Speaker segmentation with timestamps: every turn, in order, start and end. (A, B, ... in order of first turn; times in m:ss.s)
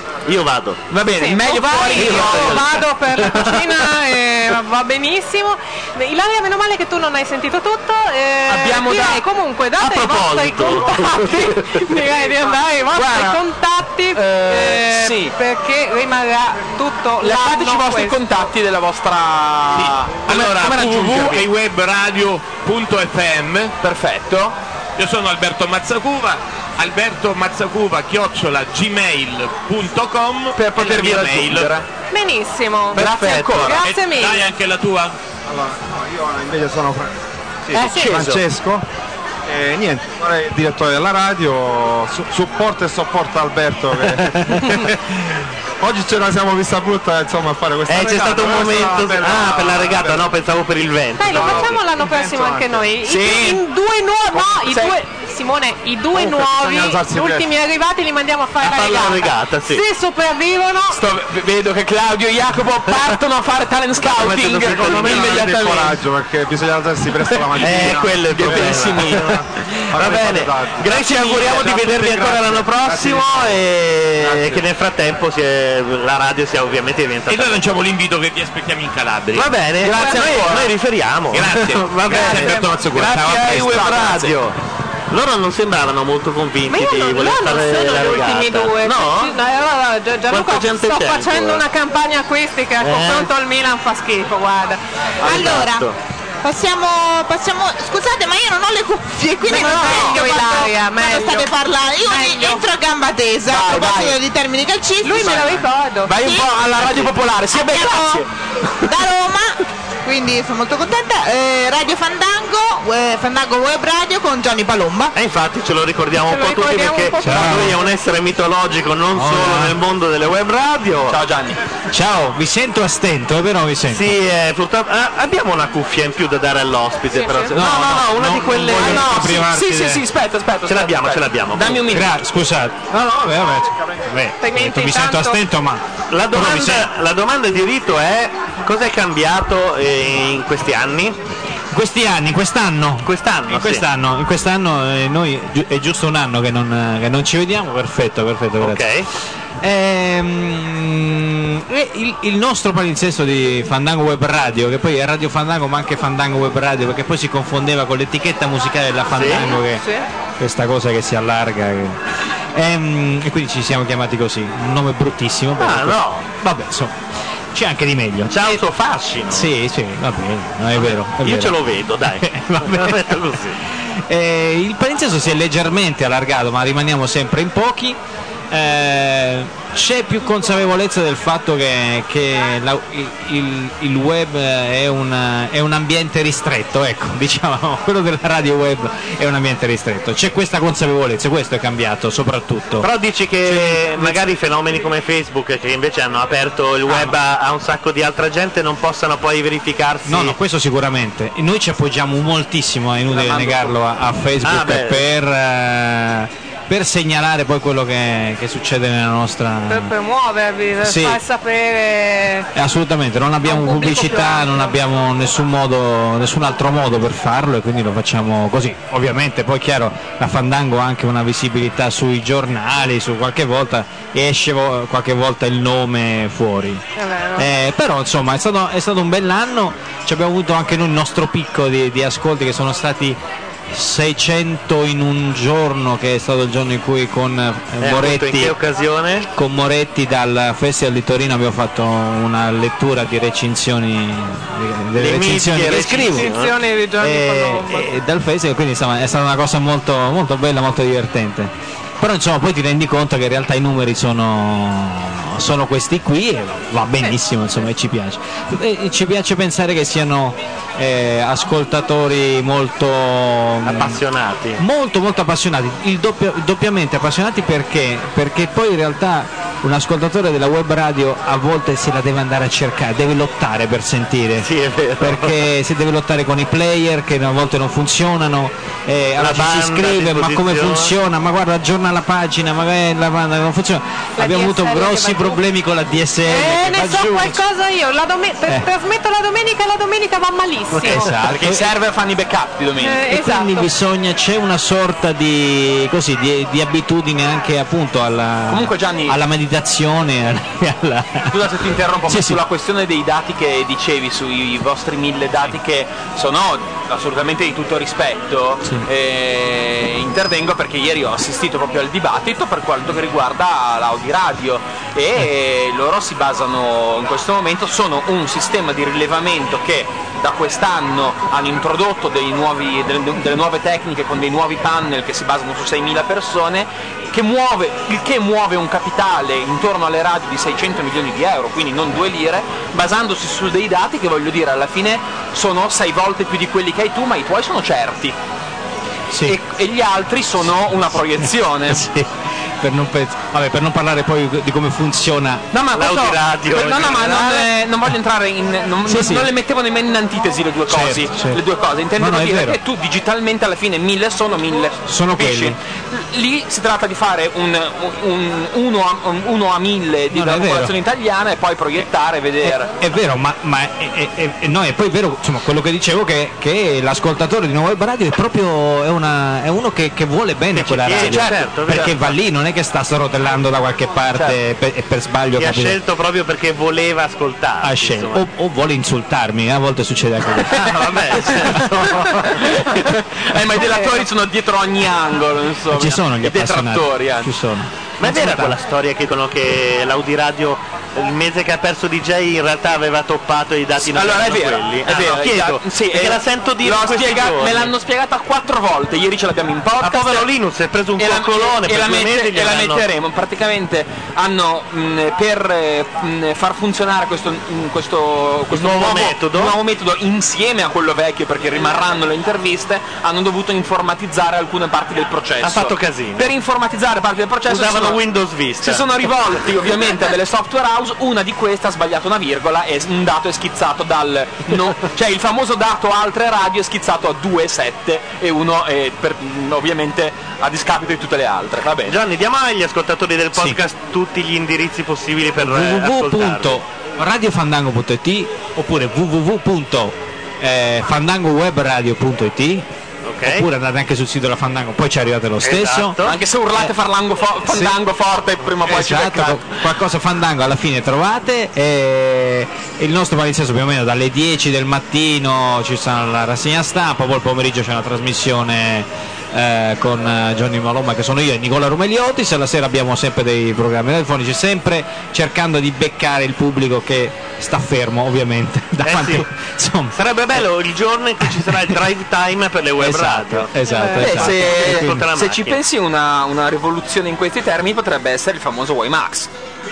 0:00.3-0:00.8 A
0:00.9-0:02.6 B
0:01.2-0:18.2 C
0:01.9-0:02.7 A
0:08.5-0:09.2 B
0:09.8-0:11.5 A
0:12.9-0:13.4 B
0:14.1-0:15.3 B
0:17.2-0:21.5 B
0:19.7-0:23.8 D
0:23.8-0:24.6 B
0:25.0-0:31.8 D
0:30.6-0:31.8 B
0:32.1-0:34.4 C
0:32.9-0:33.8 A
0:33.0-0:33.8 B
0:33.7-0:35.2 D
0:35.4-0:37.1 E
0:37.6-0:38.8 E
0:37.8-0:38.1 C
0:39.5-0:45.1 E
0:45.8-0:50.3 E
0:47.9-0:51.8 A
0:51.2-1:01.0 C
0:51.3-0:52.9 E
0:53.0-0:53.6 B
0:54.5-0:55.0 B
0:56.1-0:57.5 E
0:58.6-0:59.8 A
1:00.9-1:06.0 B
1:04.1-1:05.4 A
1:04.3-1:13.6 E
1:07.6-1:09.4 A
1:07.6-1:09.3 B
1:09.9-1:17.7 A
1:14.2-1:14.6 E
1:17.3-1:20.7 D
1:19.3-1:24.6 A
1:21.3-1:24.3 D
1:23.3-1:24.1 B
1:25.1-1:29.3 A
1:26.7-1:34.8 C
1:30.3-1:31.6 A
1:32.8-1:33.3 A
1:35.2-1:36.0 A
1:35.2-1:35.9 F
1:36.4-1:45.5 F
1:39.4-1:42.6 C
1:39.7-1:40.1 A
1:43.5-1:44.2 B
1:45.0-1:46.1 C
1:46.1-1:48.3 B
1:46.1-1:46.6 F
1:47.5-1:48.2 F
1:48.9-1:55.1 F
1:55.1-2:01.2 A
1:56.2-1:57.9 C
1:57.2-1:57.8 G
1:59.1-1:59.8 G
2:01.1-2:01.6 B
2:01.9-2:04.1 G
2:03.9-2:09.3 A
2:07.1-2:07.6 C
2:07.5-2:10.0 G
2:08.7-2:12.2 B
2:10.6-2:11.9 A
2:11.8-2:16.9 G
2:14.4-2:15.4 C
2:16.1-2:21.2 A
2:21.7-2:28.8 G
2:23.0-2:23.8 A
2:28.6-2:29.1 A
2:29.6-2:39.8 G
2:39.1-2:39.6 A
2:39.4-2:40.1 C
2:40.4-2:42.0 G
2:42.6-2:47.0 G
2:45.6-2:46.3 A
2:47.5-2:48.6 G
2:48.3-2:49.5 A
2:49.3-2:51.6 G
2:50.7-2:53.6 A
2:52.2-2:53.0 G
2:54.1-2:58.0 G
2:58.5-3:12.9 G
3:12.8-3:20.4 A
3:13.4-3:14.2 G
3:20.1-3:29.9 G
3:23.1-3:23.8 B
3:24.4-3:25.1 A
3:29.7-3:32.5 C
3:30.8-3:31.2 G
3:32.6-3:46.8 G
3:33.4-3:34.8 C
3:47.0-3:47.5 C
3:47.4-3:53.2 G
3:53.7-3:58.5 G
3:57.8-3:59.3 A
3:59.3-4:06.3 G
4:05.0-4:06.5 A
4:05.9-4:07.9 C
4:07.0-4:24.0 G
4:23.6-4:24.6 A
4:24.6-4:34.5 G
4:34.4-4:35.4 A
4:35.0-4:47.4 G
4:39.2-4:40.9 A
4:44.2-4:45.4 C
4:46.3-4:51.1 C
4:50.7-4:51.7 G
4:50.9-4:53.2 B
4:52.8-4:53.7 C
4:53.1-5:01.4 G
4:58.5-4:59.2 B
5:01.3-5:38.2 B
5:02.1-5:02.4 G
5:39.1-5:39.4 G
5:39.2-5:41.9 B
5:41.2-5:45.4 G
5:45.5-6:02.8 B
5:45.7-5:47.4 A
5:48.8-5:49.3 G
5:50.7-5:51.4 G
5:52.0-5:52.6 G
5:54.9-5:55.6 G
6:00.1-6:00.7 G
6:02.4-6:15.8 G
6:10.5-6:12.2 A
6:15.4-6:18.2 A
6:17.6-6:20.7 G
6:20.5-6:22.2 A
6:22.4-6:27.3 B
6:23.6-6:23.9 C
6:25.7-6:28.6 G
6:28.0-6:37.7 A
6:33.8-6:40.3 B
6:39.8-6:42.8 A
6:41.0-6:58.0 B
6:48.5-6:49.6 A
6:55.4-6:56.3 A
6:57.5-6:58.8 A
6:58.6-7:12.0 B
7:11.8-7:16.6 A
7:15.4-7:22.7 G
7:23.0-7:23.5 A
7:23.2-7:26.0 G
7:25.4-7:26.2 A
7:26.0-7:29.6 B
7:27.4-7:27.8 G
7:28.6-7:50.0 G
7:48.8-7:49.2 A
7:49.9-7:55.6 A
7:52.8-7:55.0 G
7:53.6-7:54.2 C
7:54.0-7:59.3 B